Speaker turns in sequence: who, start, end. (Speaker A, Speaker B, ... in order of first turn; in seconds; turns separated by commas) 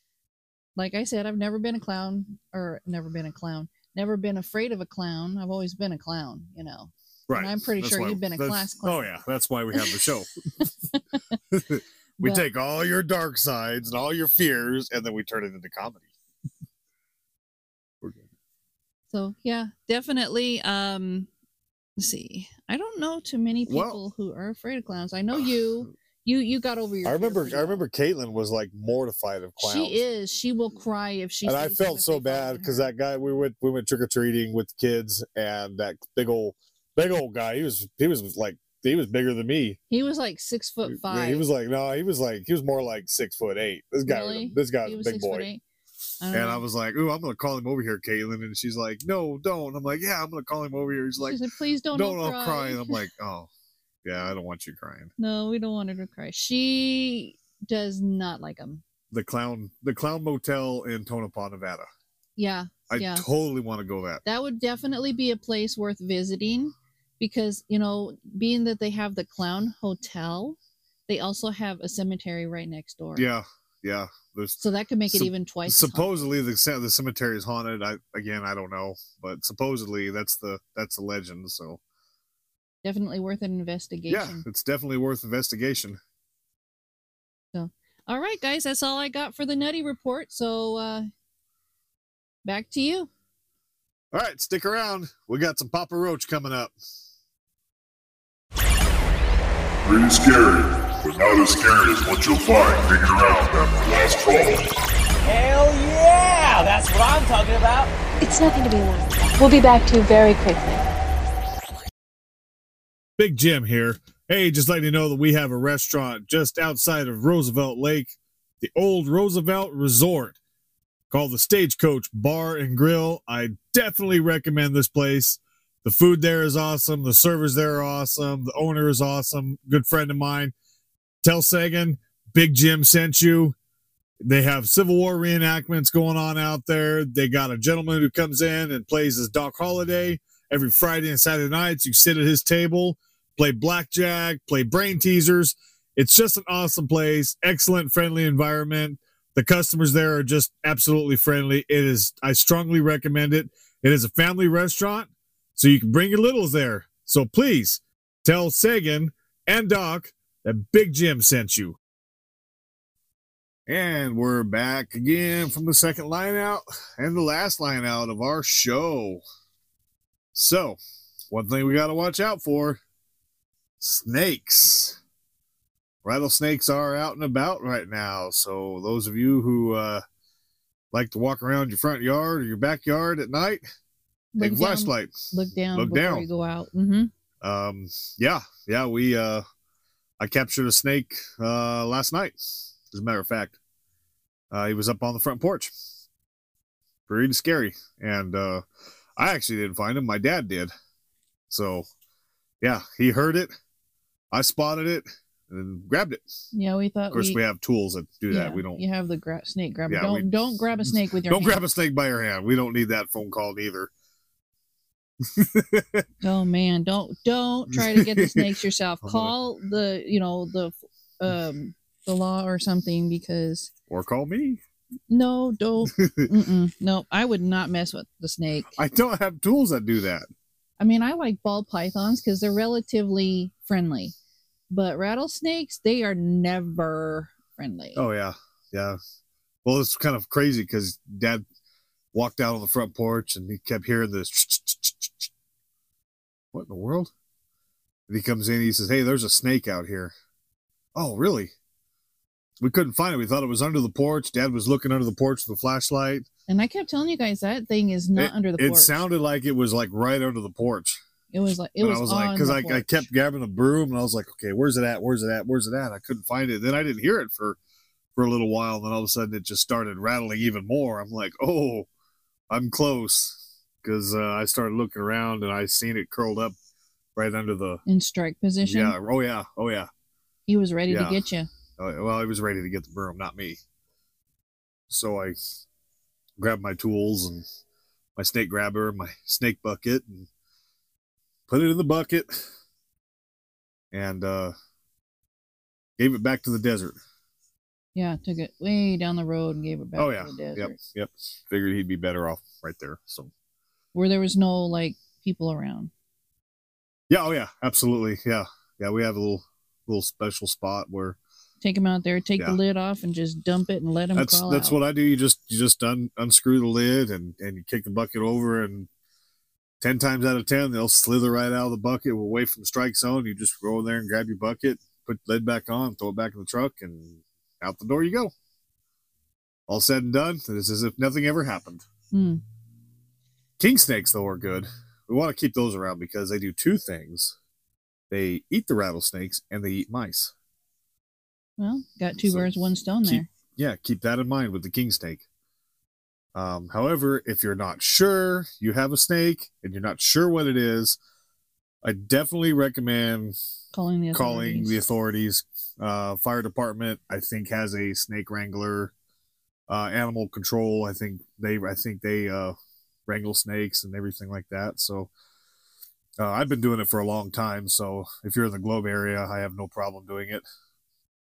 Speaker A: 0.8-9.1, Speaker B: 7.3-10.3, Speaker A: 10.6-11.0, Speaker B: 11.5-16.1, Speaker B: 18.0-18.2, Speaker A: 19.1-21.3, Speaker A: 22.0-27.8, Speaker B: 23.7-24.0, Speaker B: 27.0-30.0, Speaker A: 29.6-32.9, Speaker B: 31.4-39.8, Speaker A: 39.9-41.4, Speaker B: 40.9-45.5, Speaker A: 44.0-45.6, Speaker A: 46.2-46.6, Speaker B: 46.3-51.4, Speaker A: 51.2-53.0, Speaker B: 51.9-53.5, Speaker B: 54.0-55.1, Speaker A: 55.2-58.8, Speaker B: 59.1-61.9, Speaker A: 62.4-63.2, Speaker B: 62.9-64.2, Speaker A: 64.2-73.3, Speaker B: 73.1-81.8, Speaker A: 74.6-76.3, Speaker A: 82.8-84.4, Speaker B: 84.1-86.0, Speaker A: 87.5-91.1, Speaker A: 92.4-93.1, Speaker B: 94.1-96.7, Speaker C: 99.8-104.6, Speaker D: 105.2-107.9, Speaker E: 108.2-110.8, Speaker B: 113.2-120.4, Speaker B: 121.1-130.5, Speaker B: 131.2-133.5, Speaker B: 134.2-161.8, Speaker B: 163.7-169.2, Speaker B: 170.3-170.8, Speaker B: 171.3-172.8, Speaker B: 173.8-175.0, Speaker B: 176.0-180.0, Speaker B: 180.9-183.6, Speaker A: 184.3-187.1, Speaker B: 184.4-185.1, Speaker B: 185.7-186.2, Speaker B: 187.4-189.4, Speaker B: 190.2-193.6, Speaker B: 194.5-195.7, Speaker B: 197.1-198.6, Speaker B: 199.2-200.7, Speaker B: 201.5-201.8, Speaker B: 202.6-203.5, Speaker B: 204.3-206.2, Speaker A: 206.5-207.4, Speaker B: 207.1-208.8, Speaker A: 208.3-211.6, Speaker B: 209.9-210.3, Speaker B: 210.9-213.9, Speaker B: 215.2-216.0, Speaker A: 216.2-223.7, Speaker B: 217.7-218.5, Speaker B: 219.0-219.3, Speaker B: 223.9-224.6, Speaker A: 225.1-228.7, Speaker B: 225.9-226.3, Speaker B: 228.7-230.3, Speaker A: 230.8-234.1, Speaker A: 234.7-238.0, Speaker B: 237.9-239.0, Speaker B: 239.6-241.4, Speaker B: 242.1-245.3, Speaker B: 246.5-247.1, Speaker B: 248.1-250.1, Speaker B: 250.9-251.5, Speaker B: 252.6-256.2, Speaker A: 256.5-258.9, Speaker B: 258.1-261.0, Speaker A: 261.3-263.1, Speaker B: 261.8-267.6, Speaker B: 268.1-271.9, Speaker B: 272.5-276.5, Speaker B: 277.1-277.8, Speaker A: 277.9-278.9, Speaker B: 278.6-279.9, Speaker A: 280.5-281.5, Speaker B: 280.9-281.2, Speaker B: 281.8-283.6, Speaker B: 284.9-285.4, Speaker B: 286.4-287.4, Speaker B: 288.1-290.3, Speaker B: 291.5-292.5, Speaker B: 293.9-294.5, Speaker B: 296.0-297.0, Speaker A: 297.9-300.8, Speaker B: 300.0-303.3, Speaker A: 303.9-305.9, Speaker B: 307.1-311.2, Speaker A: 311.6-314.8, Speaker B: 314.1-318.9, Speaker B: 319.8-328.3, Speaker B: 329.7-331.8, Speaker A: 332.1-332.4, Speaker B: 333.6-337.3, Speaker B: 338.1-340.3, Speaker A: 341.6-343.3, Speaker B: 342.2-342.5, Speaker B: 343.0-345.2, Speaker B: 346.3-350.9, Speaker B: 351.8-353.3, Speaker A: 353.7-354.8, Speaker B: 354.1-358.9, Speaker B: 359.7-362.5, Speaker B: 363.1-365.1, Speaker B: 366.2-370.4